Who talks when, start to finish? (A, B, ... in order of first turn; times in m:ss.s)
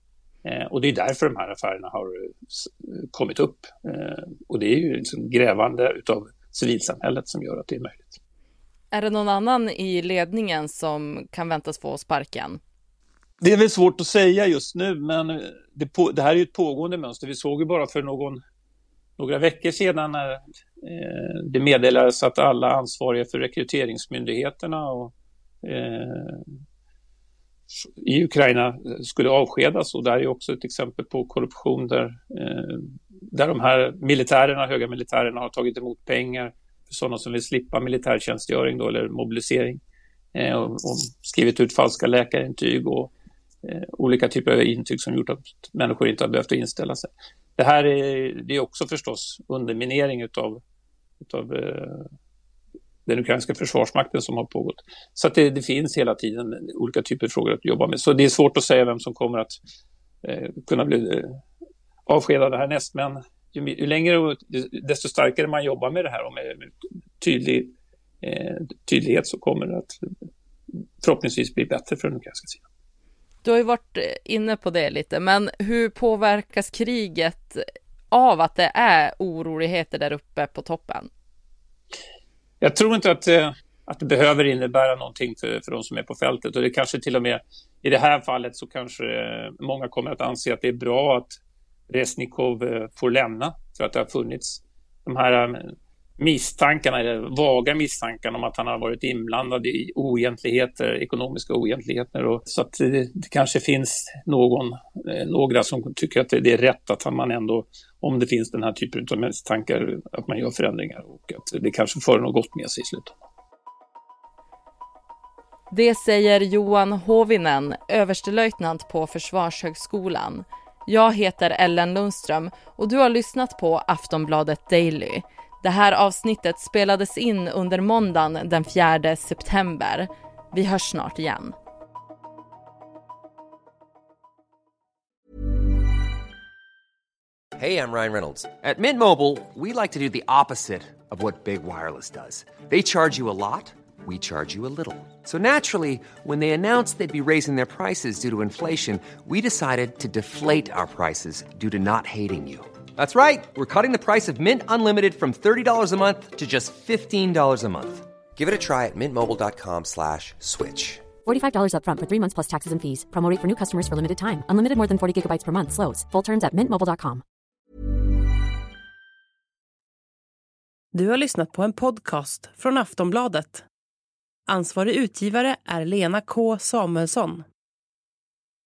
0:00.4-0:08.2 A
0:08.9-0:12.6 B
0:13.4-0:18.4 A
0:19.2-0:25.1 A
0:25.6-0:26.4 A
0:27.7-0:39.8 A
0:40.4-0:43.1 A
0:43.6-0:50.6 A
0:51.2-0:52.1 A
0:53.1-0:59.6 A
1:00.2-1:01.4 A
1:02.1-1:10.0 A
1:11.0-1:12.6 A
1:13.4-1:21.1 B
1:22.6-1:31.3 A
1:31.9-1:53.2 A
1:55.7-2:11.6 B
2:17.6-2:41.2 C
2:41.2-2:47.2 D
2:51.0-2:53.6 E
2:54.5-2:57.4 E